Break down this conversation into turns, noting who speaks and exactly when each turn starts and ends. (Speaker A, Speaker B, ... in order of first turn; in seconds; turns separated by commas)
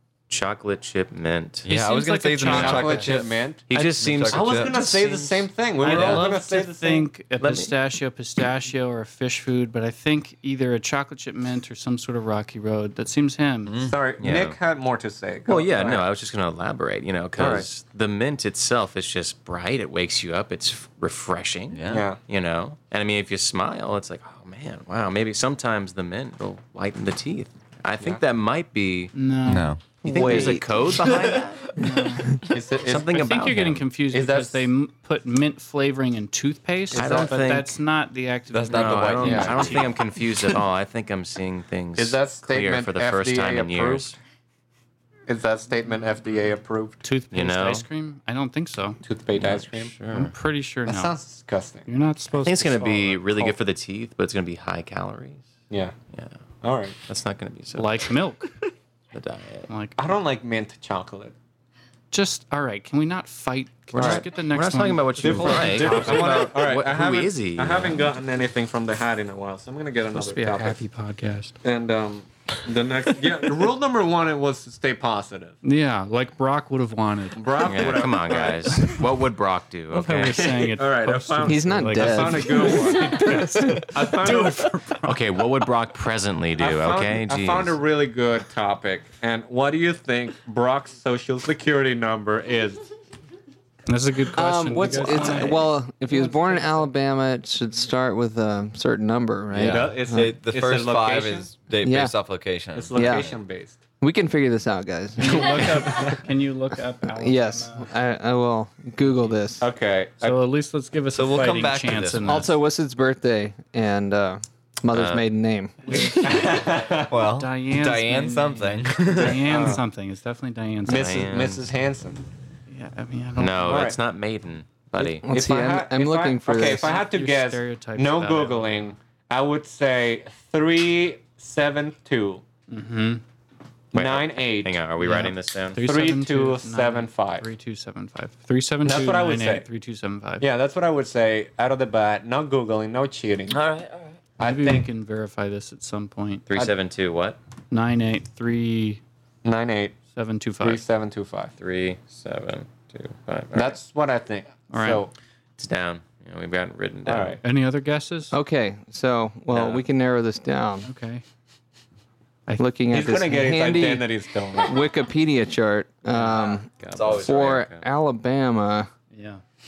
Speaker A: 0.3-1.7, Speaker B: 1.6-5.2, Speaker C: 1.7-3.1, Speaker A: 2.5-2.9, Speaker D: 2.5-3.6, Speaker A: 3.7-5.2, Speaker D: 4.3-7.1, Speaker C: 5.8-13.7, Speaker B: 5.8-6.2, Speaker A: 7.4-7.7, Speaker B: 13.7-14.0, Speaker D: 13.8-16.1, Speaker A: 14.2-14.6, Speaker A: 15.4-29.1, Speaker D: 17.4-17.7, Speaker B: 21.7-22.1, Speaker D: 21.9-22.2, Speaker C: 29.1-29.7, Speaker B: 29.4-29.8, Speaker A: 30.0-31.6, Speaker E: 30.0-30.7, Speaker B: 30.9-31.9, Speaker C: 31.8-32.3, Speaker D: 32.5-33.3, Speaker A: 32.8-34.0, Speaker C: 33.1-39.8, Speaker D: 34.0-34.7, Speaker D: 36.9-37.4, Speaker A: 36.9-37.7, Speaker B: 38.5-39.9, Speaker A: 38.7-44.2, Speaker D: 39.2-39.8, Speaker D: 42.0-44.2, Speaker D: 45.3-47.0, Speaker C: 47.0-49.0, Speaker A: 47.3-47.9, Speaker D: 49.0-49.9, Speaker A: 49.3-50.3, Speaker C: 50.1-51.1, Speaker D: 50.9-51.9, Speaker C: 51.9-52.7, Speaker A: 52.4-55.5, Speaker D: 52.6-53.6, Speaker D: 55.7-55.9, Speaker A: 56.1-56.4, Speaker D: 56.6-57.0, Speaker A: 57.0-58.1, Speaker C: 57.7-58.5, Speaker A: 59.1-59.7, Speaker C: 59.7-60.0, Speaker D: 60.0-61.3, Speaker C: 62.1-66.5, Speaker A: 63.9-68.1, Speaker D: 64.0-64.3, Speaker D: 65.2-70.8, Speaker C: 70.1-71.5, Speaker D: 71.6-75.6, Speaker C: 75.6-78.1, Speaker D: 77.3-78.7, Speaker A: 77.6-80.4, Speaker C: 78.7-79.0, Speaker C: 79.9-85.2, Speaker D: 80.3-84.7, Speaker E: 81.4-83.8, Speaker A: 85.0-87.7, Speaker D: 86.6-92.8, Speaker C: 93.9-96.9, Speaker E: 94.3-100.3, Speaker D: 94.8-95.6, Speaker B: 99.5-103.4, Speaker D: 99.5-101.5, Speaker E: 101.8-102.1, Speaker D: 102.7-103.8, Speaker E: 102.9-103.3, Speaker E: 104.0-105.8, Speaker C: 105.2-107.9, Speaker E: 107.1-109.7, Speaker D: 109.6-110.4, Speaker C: 110.2-112.5, Speaker B: 111.1-112.5, Speaker E: 112.2-116.4, Speaker A: 114.9-115.2, Speaker D: 115.9-117.2, Speaker C: 115.9-116.5, Speaker B: 117.1-119.4, Speaker C: 117.4-121.1, Speaker D: 119.2-119.8, Speaker D: 120.8-122.2, Speaker A: 120.9-121.7, Speaker C: 122.7-124.0, Speaker A: 123.4-125.3, Speaker D: 123.6-124.0, Speaker E: 125.0-127.0, Speaker D: 125.2-132.4, Speaker C: 126.6-128.8, Speaker C: 132.7-133.2, Speaker D: 133.9-134.8, Speaker A: 133.9-135.8, Speaker C: 135.0-140.5, Speaker D: 135.8-137.4, Speaker D: 138.8-139.7, Speaker D: 140.4-143.6, Speaker B: 143.7-144.2, Speaker D: 144.4-144.9, Speaker C: 144.4-146.4, Speaker A: 146.5-147.4, Speaker C: 147.7-149.0, Speaker D: 149.4-150.0, Speaker C: 150.1-150.8, Speaker D: 150.6-151.5, Speaker A: 151.6-153.8, Speaker D: 153.5-155.1, Speaker C: 154.7-155.0, Speaker A: 155.6-157.4, Speaker D: 157.0-157.4, Speaker C: 157.4-158.3, Speaker E: 158.3-160.9, Speaker C: 160.8-161.2, Speaker E: 162.6-164.1, Speaker D: 162.9-164.8, Speaker E: 164.6-168.9, Speaker A: 166.8-167.8, Speaker B: 166.9-167.7, Speaker C: 169.1-169.4